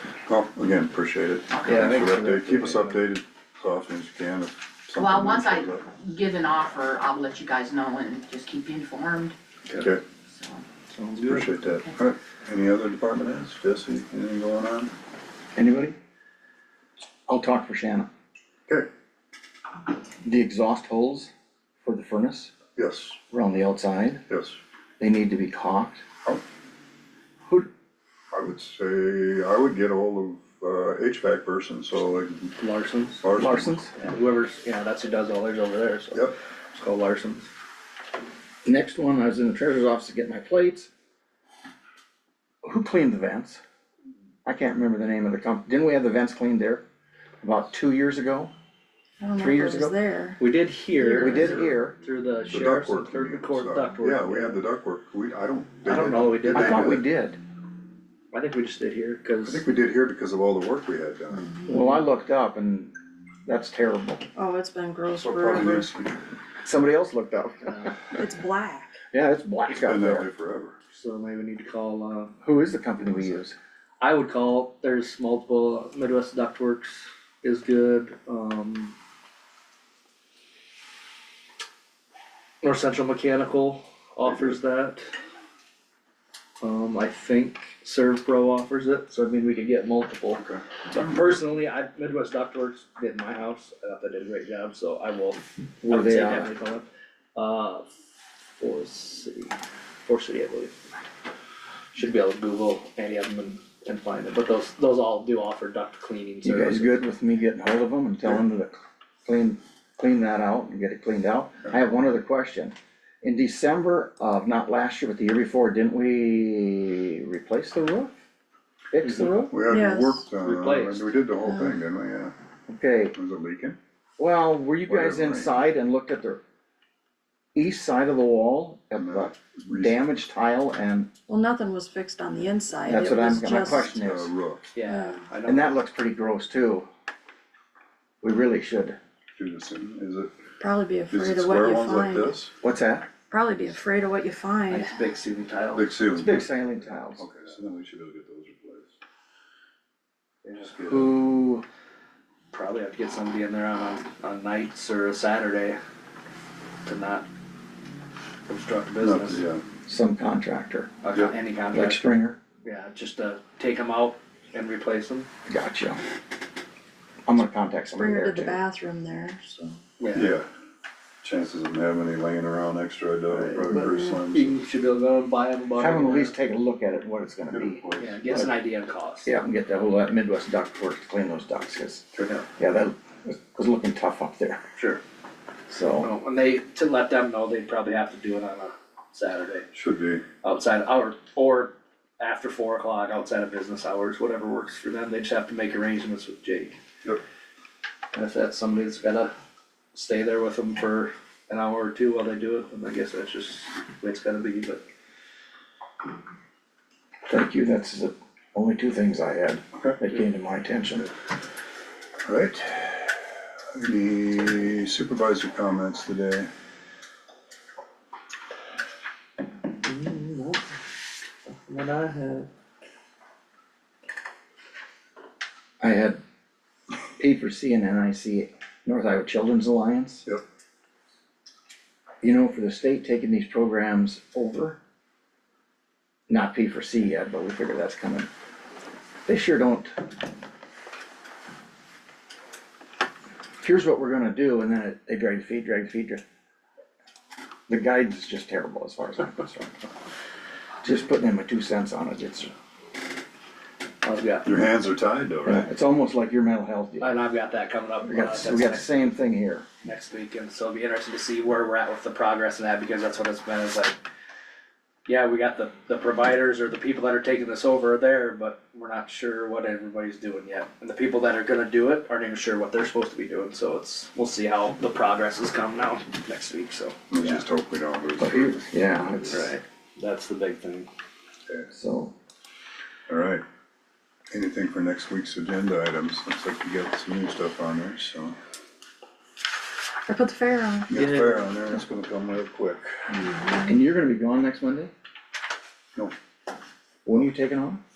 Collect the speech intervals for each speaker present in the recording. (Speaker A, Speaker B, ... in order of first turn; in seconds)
Speaker A: 0.3-5.8, 11.2-14.9, 22.8-23.2, 24.3-24.6, 28.3-32.6, 33.2-33.8, 52.5-57.0, 59.4-61.5, 65.2-66.2, 69.8-70.8, 84.2-84.5, 90.4-91.1, 119.5-122.3, 123.1-123.8, 124.9-125.5, 128.9-130.0, 133.6-134.7, 139.4-140.3, 141.1-142.5, 145.7-146.5, 147.2-148.9, 150.6-151.2, 159.0-159.6, 170.1-170.5, 171.2-174.6, 177.5-178.5, 189.7-190.2, 209.8-210.0, 212.2-213.2, 213.7-216.5, 254.4-255.7, 277.1-278.7, 283.1-283.4, 284.3-288.4, 290.9-293.0
Speaker B: 1.5-2.0, 4.9-9.3, 10.3-10.6
Speaker C: 1.6-3.0, 10.9-11.6, 32.6-33.2, 33.9-37.5, 50.4-54.6, 55.8-57.0, 58.3-59.6, 70.9-72.4, 73.1-73.4, 74.0-78.9, 82.6-85.1, 86.6-97.9, 98.6-100.7, 101.9-107.0, 120.4-121.2, 134.7-135.8, 144.7-145.9, 150.4-150.7, 152.5-155.8, 156.8-157.2, 158.5-159.4, 161.0-162.1, 162.6-165.3, 170.0-170.4, 173.3-176.3, 178.0-179.3, 182.2-182.5, 184.8-185.0, 186.0-189.7, 190.4-196.8, 198.1-199.3, 199.9-204.8, 219.8-220.6, 221.5-222.5, 254.0-254.5, 257.0-258.9, 259.8-264.0, 265.1-277.4, 279.3-280.9, 290.9-291.5
Speaker D: 15.5-15.9, 17.3-18.1, 20.2-21.3, 21.8-22.6, 23.3-24.2, 25.0-26.0, 33.3-33.9, 38.6-40.9, 42.6-43.6, 44.4-46.8, 47.4-48.5, 49.4-49.9, 51.0-52.0, 56.5-57.4, 61.7-62.9, 63.4-64.2, 66.6-68.2, 69.1-70.3, 72.4-73.5, 95.8-96.5, 106.4-118.1, 118.9-119.6, 122.7-123.2, 124.2-126.4, 127.5-131.1, 132.8-134.3, 135.4-136.9, 138.2-139.0, 142.6-143.1, 146.1-147.2, 150.8-151.6, 159.8-161.0, 161.7-162.4, 165.5-166.0, 167.2-168.6, 175.8-178.4, 179.2-184.6, 185.7-186.1, 207.3-211.1, 225.8-226.2, 227.2-230.2, 232.2-234.8, 236.3-238.3, 239.2-239.9, 243.6-246.2, 247.7-249.9, 250.8-252.5, 255.4-257.1, 258.0-259.6, 278.2-279.5, 281.7-282.1, 293.6-294.9, 297.1-297.8
Speaker E: 49.2-50.4, 51.0-51.5, 61.4-61.8, 64.3-65.9, 68.1-69.0, 119.7-120.2, 131.3-134.1, 134.8-135.2, 140.6-142.4, 143.3-144.9, 168.0-169.8, 290.1-290.9, 293.1-293.7